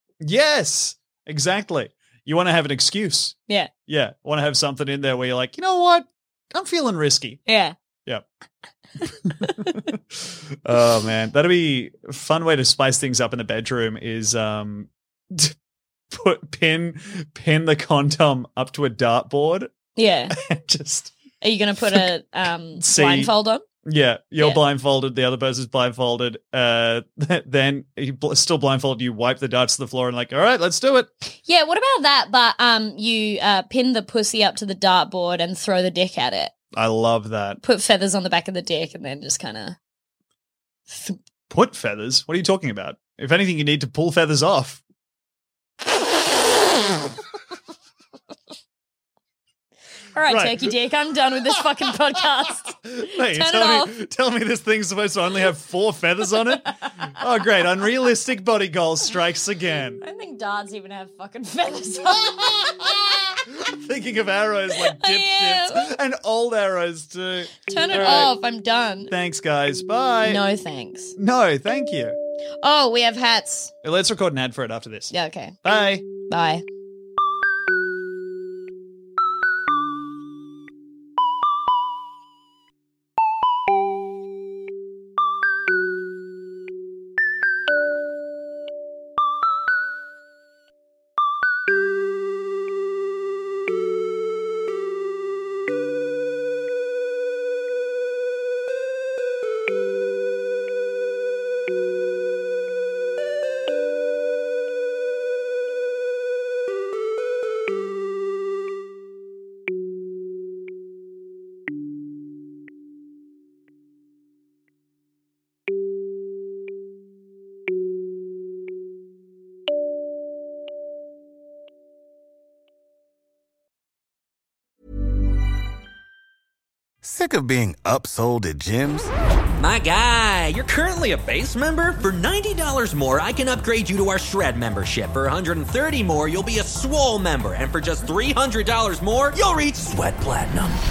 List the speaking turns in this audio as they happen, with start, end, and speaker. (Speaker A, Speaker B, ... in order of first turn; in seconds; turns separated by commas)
Speaker A: 0.2-3.4, Speaker A: 3.9-7.4, Speaker B: 7.5-7.8, Speaker A: 9.0-15.6, Speaker B: 9.4-9.8, Speaker A: 16.1-19.7, Speaker B: 20.0-20.4, Speaker A: 20.3-21.2, Speaker B: 21.4-23.6, Speaker A: 22.8-23.3, Speaker A: 23.8-31.3, Speaker B: 31.4-36.5, Speaker A: 36.7-37.6, Speaker B: 37.6-39.8, Speaker B: 40.9-41.2, Speaker A: 41.5-44.8, Speaker B: 50.1-54.0, Speaker A: 50.3-50.7, Speaker A: 52.9-60.0, Speaker B: 60.0-63.0, Speaker A: 62.3-62.8, Speaker A: 63.5-68.3, Speaker B: 64.7-65.9, Speaker B: 67.6-69.1, Speaker A: 69.1-70.4, Speaker B: 70.2-71.2, Speaker A: 71.2-72.2, Speaker B: 72.6-73.7, Speaker A: 73.8-76.1, Speaker B: 75.1-75.6, Speaker B: 76.2-76.7, Speaker C: 127.0-129.1, Speaker D: 129.5-140.8